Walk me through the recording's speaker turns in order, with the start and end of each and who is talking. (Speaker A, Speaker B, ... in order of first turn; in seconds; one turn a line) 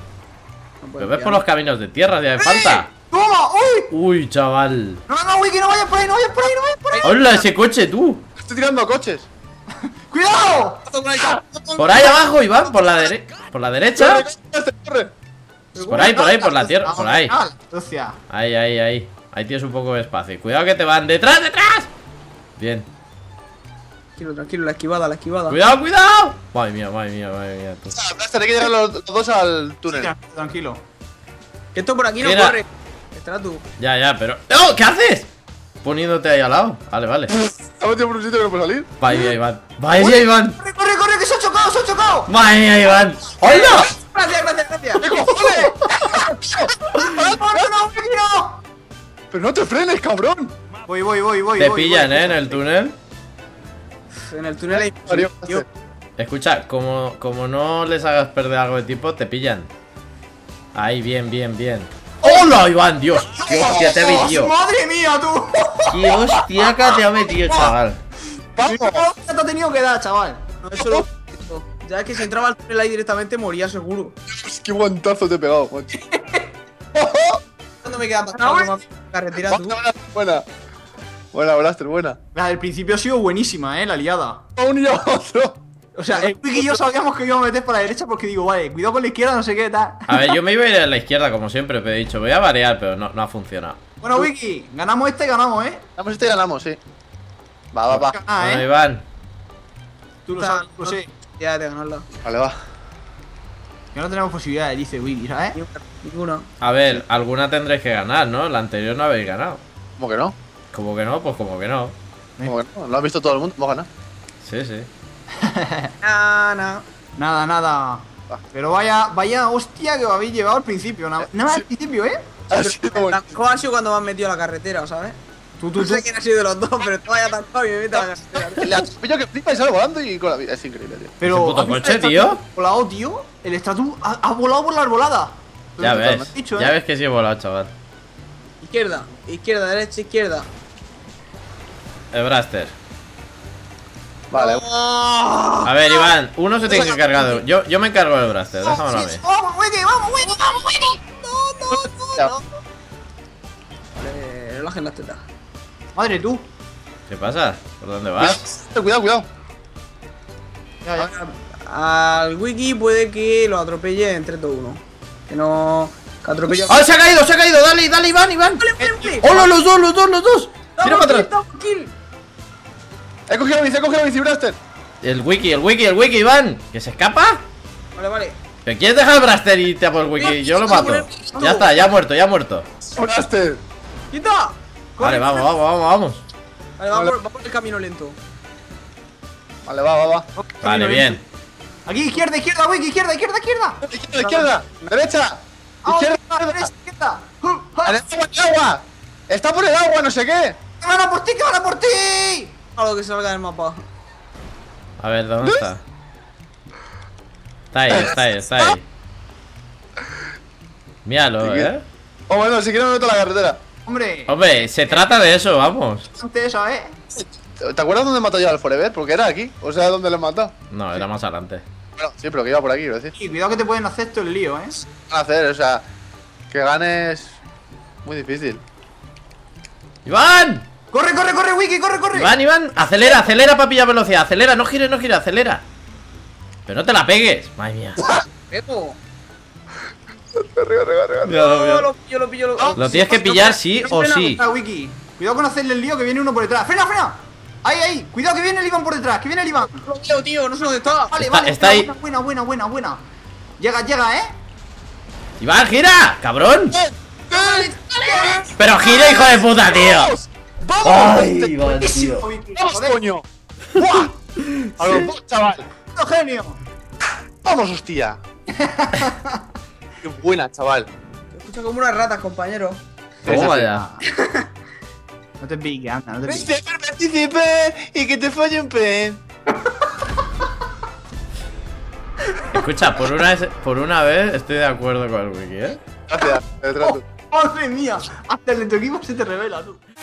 Speaker A: 0.8-1.4
Speaker B: 1.0-2.9
Speaker C: 2.4-3.9
Speaker B: 3.9-5.0
Speaker C: 5.1-7.1
Speaker A: 6.9-7.3
Speaker B: 7.0-8.2
Speaker D: 8.4-9.3
Speaker C: 10.1-10.8
Speaker A: 10.8-12.2
Speaker B: 11.8-14.2
Speaker D: 13.9-15.1
Speaker A: 15.8-16.2
Speaker C: 15.8-18.2
Speaker B: 15.8-17.3
Speaker B: 18.3-21.9
Speaker B: 22.6-22.9
Speaker A: 24.1-25.6
Speaker B: 25.5-27.9
Speaker D: 27.9-30.1
Speaker C: 29.9-30.8
Speaker A: 31.7-33.6
Speaker B: 32.2-32.6
Speaker B: 33.8-35.3
Speaker B: 35.8-37.3
Speaker D: 37.3-38.9
Speaker B: 39.0-40.6
Speaker C: 40.0-42.3
Speaker B: 42.3-43.9
Speaker A: 43.4-45.1
Speaker D: 44.9-47.7
Speaker C: 45.0-46.3
Speaker C: 46.8-48.6
Speaker D: 49.3-50.5
Speaker C: 50.9-52.6
Speaker B: 51.5-52.9
Speaker A: 54.1-55.6
Speaker D: 54.7-55.6
Speaker B: 56.2-59.7
Speaker B: 60.7-64.5
Speaker C: 62.2-62.5
Speaker C: 63.4-66.1
Speaker B: 65.9-68.0
Speaker D: 68.5-69.0
Speaker C: 68.6-70.4
Speaker A: 70.6-74.1
Speaker D: 70.8-71.0
Speaker D: 74.3-75.9
Speaker A: 76.1-76.4
Speaker D: 76.9-77.4
Speaker A: 77.8-79.8
Speaker C: 78.3-78.8
Speaker D: 79.5-80.4
Speaker D: 81.3-82.2
Speaker C: 82.3-84.4
Speaker D: 84.5-85.6
Speaker C: 86.0-90.3
Speaker B: 90.1-93.8
Speaker C: 94.0-95.8
Speaker D: 96.0-96.8
Speaker D: 97.7-98.2
Speaker C: 97.9-98.7
Speaker B: 98.3-99.0
Speaker C: 100.2-101.1
Speaker A: 100.3-102.0
Speaker D: 102.2-102.5
Speaker C: 103.9-105.6
Speaker A: 105.5-106.5
Speaker B: 106.6-109.6
Speaker D: 110.0-110.3
Speaker B: 110.7-111.9
Speaker D: 112.4-113.9
Speaker B: 114.4-114.9
Speaker C: 115.4-115.9
Speaker A: 116.0-116.8
Speaker C: 117.2-122.3
Speaker D: 122.5-123.2
Speaker A: 122.5-125.2
Speaker C: 125.6-126.0
Speaker A: 125.8-128.6
Speaker D: 128.5-131.2
Speaker C: 131.2-136.7
Speaker B: 131.2-132.4
Speaker B: 135.8-137.7
Speaker D: 136.0-136.2
Speaker A: 138.6-140.5
Speaker B: 142.1-142.7
Speaker D: 144.3-144.6
Speaker A: 144.3-145.7
Speaker B: 145.6-149.2
Speaker C: 148.6-150.9
Speaker A: 150.6-152.4
Speaker D: 151.7-152.3
Speaker A: 153.9-155.2
Speaker C: 155.9-156.4
Speaker B: 157.1-158.4
Speaker D: 158.2-159.2
Speaker C: 160.8-161.1
Speaker A: 161.0-166.9
Speaker B: 166.7-168.7
Speaker A: 168.6-169.5
Speaker C: 168.8-169.4
Speaker B: 169.2-171.3
Speaker A: 170.8-171.9
Speaker D: 173.3-174.6
Speaker B: 175.0-177.4
Speaker A: 177.9-178.3
Speaker B: 178.6-182.7
Speaker A: 180.2-181.7
Speaker D: 182.9-183.6
Speaker A: 184.1-184.5
Speaker C: 185.0-185.5
Speaker B: 185.0-186.2
Speaker A: 186.8-188.2
Speaker D: 189.6-190.3
Speaker C: 190.3-191.2
Speaker B: 190.6-191.2
Speaker C: 191.8-193.8
Speaker D: 193.8-196.7
Speaker C: 195.8-198.0
Speaker D: 197.8-200.6
Speaker C: 200.8-202.5
Speaker A: 202.7-203.8
Speaker B: 205.0-205.8
Speaker D: 205.4-205.7
Speaker B: 207.7-208.8
Speaker B: 211.0-211.8
Speaker D: 211.4-211.7
Speaker D: 212.3-213.6
Speaker C: 213.8-215.1
Speaker B: 214.3-216.1
Speaker C: 216.2-216.9
Speaker D: 217.1-220.5
Speaker B: 220.7-221.6
Speaker D: 222.0-223.1
Speaker C: 223.1-224.8
Speaker D: 225.1-225.8
Speaker D: 226.5-227.4
Speaker D: 228.0-228.6
Speaker B: 230.0-230.7
Speaker C: 230.9-232.3
Speaker B: 232.1-235.6
Speaker B: 236.7-238.0
Speaker A: 238.5-239.0
Speaker D: 240.3-241.4
Speaker B: 241.2-241.9
Speaker A: 241.2-243.3
Speaker D: 242.6-242.9
Speaker B: 242.8-244.4
Speaker C: 242.8-249.8
Speaker A: 249.7-251.1
Speaker C: 251.1-253.0
Speaker B: 251.2-251.9
Speaker C: 253.6-254.3
Speaker B: 255.4-256.7
Speaker D: 256.7-257.7
Speaker A: 257.3-258.4
Speaker C: 258.0-259.4
Speaker B: 258.6-260.1
Speaker D: 259.6-261.6
Speaker B: 260.8-262.2
Speaker C: 261.6-263.0
Speaker D: 262.6-263.2
Speaker D: 263.8-264.1
Speaker B: 264.5-265.1
Speaker D: 264.8-265.7
Speaker C: 265.9-266.6
Speaker D: 267.4-268.2
Speaker C: 268.6-269.4
Speaker D: 270.0-270.9
Speaker A: 271.3-272.8
Speaker B: 273.2-273.8
Speaker C: 273.2-274.0
Speaker A: 274.1-274.4
Speaker C: 275.4-276.5
Speaker D: 276.3-279.2
Speaker B: 282.5-285.8
Speaker D: 286.1-287.0
Speaker C: 286.2-289.8